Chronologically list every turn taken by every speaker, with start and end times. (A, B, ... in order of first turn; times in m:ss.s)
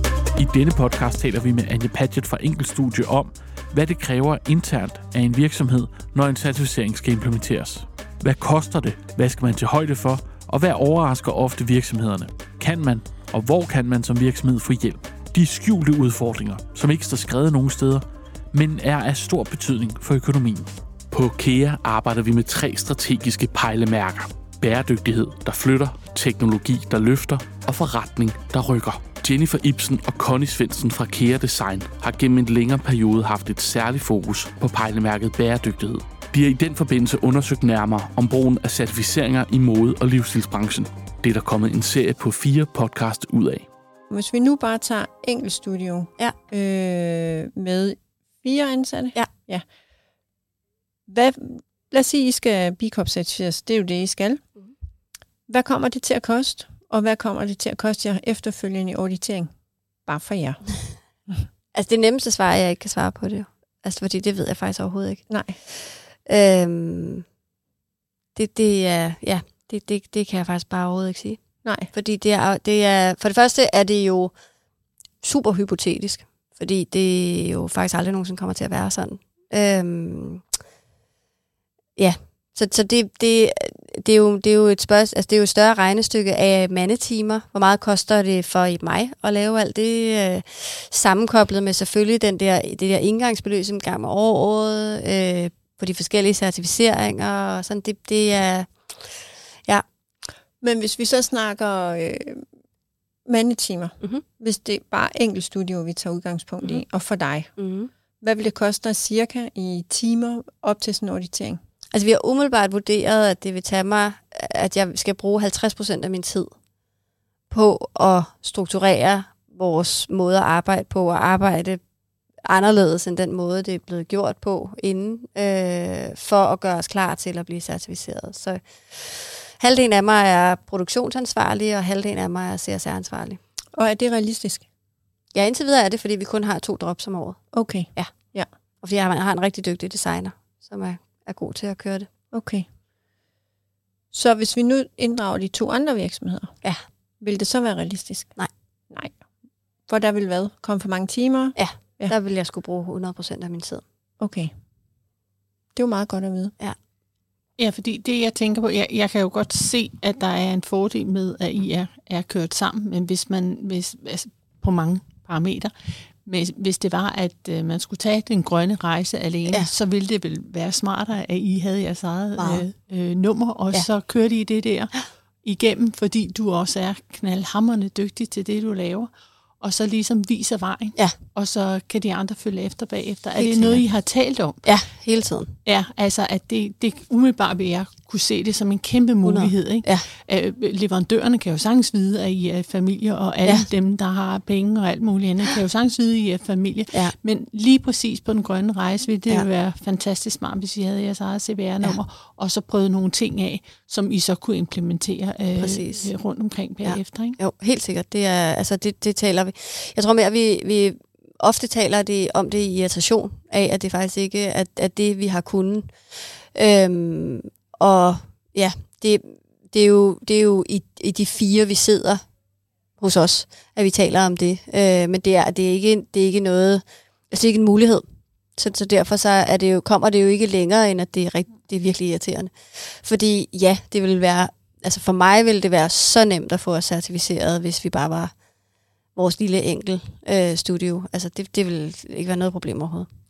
0:00.4-0:43.7 A
0:44.1-0:49.6 B
0:51.1-0:54.4 B
0:55.5-0:59.5 B
1:00.1-1:01.4 B
1:01.7-1:07.2 C
1:05.3-1:05.6 B
1:08.4-1:14.3 C
1:11.6-1:11.9 B
1:15.2-1:20.4 C
1:22.0-1:39.8 C
1:40.6-1:42.4 B
1:43.3-1:47.5 B
1:47.6-1:47.9 C
1:48.2-1:51.6 B
1:51.9-1:56.6 C
1:57.5-2:01.8 C
2:02.4-2:13.4 C
2:13.8-2:14.7 B
2:15.3-2:22.1 C
2:17.5-2:18.5 B
2:22.3-2:22.7 B
2:24.1-2:26.6 B
2:27.2-2:28.4 B
2:28.9-2:29.2 B
2:29.9-2:32.1 B
2:31.6-2:33.8 C
2:34.2-2:34.5 B
2:35.8-2:36.6 B
2:37.6-2:45.7 D
2:46.2-3:04.7 D
2:52.4-2:52.6 C
3:03.4-3:03.9 C
3:04.6-3:05.6 C
3:05.6-3:27.4 D
3:09.2-3:10.1 C
3:25.6-3:26.1 C
3:26.8-3:42.2 C
3:43.0-3:48.0 C
3:48.6-3:58.3 C
3:59.2-4:03.1 C